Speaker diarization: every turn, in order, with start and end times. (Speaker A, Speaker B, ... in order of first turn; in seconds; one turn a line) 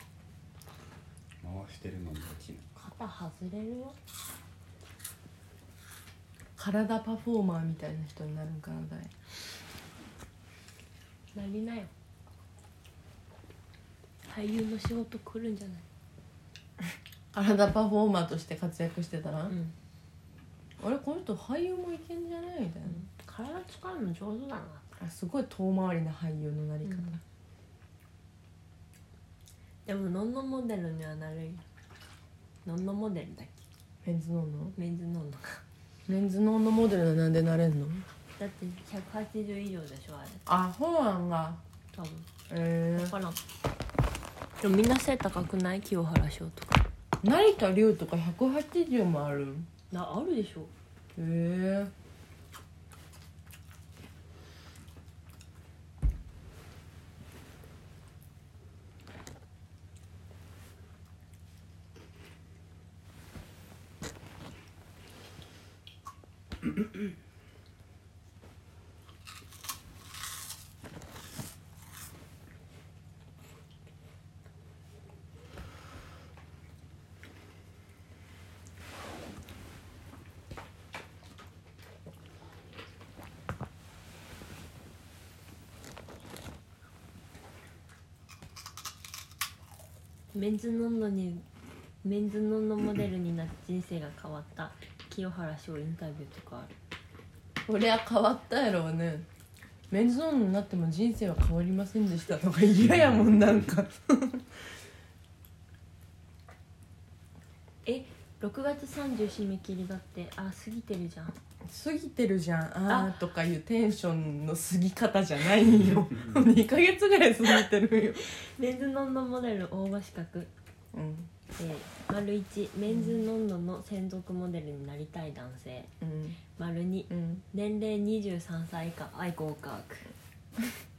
Speaker A: 1.4-2.7
Speaker B: 2.8-4.0
Speaker C: 6.6-9.1
Speaker B: 11.3-11.9
Speaker B: 14.3-15.8
Speaker C: 17.3-19.5
Speaker B: 19.5-19.7
Speaker C: 20.8-23.0
Speaker B: 22.9-24.9
Speaker C: 25.0-27.2
Speaker B: 26.8-27.2
Speaker B: 29.9-31.6
Speaker B: 32.6-33.6
Speaker C: 34.0-34.8
Speaker B: 34.8-35.6
Speaker C: 36.1-38.0
Speaker B: 38.4-40.5
Speaker C: 40.5-41.6
Speaker B: 41.9-42.3
Speaker C: 42.5-43.1
Speaker B: 42.9-43.4
Speaker B: 44.6-46.8
Speaker C: 47.2-49.7
Speaker B: 49.9-50.7
Speaker C: 51.1-51.9
Speaker B: 90.3-91.4
Speaker B: 92.0-96.7
Speaker C: 97.7-99.2
Speaker C: 99.9-104.4
Speaker A: 102.8-103.7
Speaker B: 107.8-111.3
Speaker C: 111.6-118.2
Speaker A: 115.8-116.4
Speaker B: 118.3-120.5
Speaker C: 120.9-121.3
Speaker B: 121.5-125.9
Speaker C: 122.9-123.2
Speaker C: 126.0-126.4
Speaker B: 126.6-130.1
Speaker C: 127.1-127.4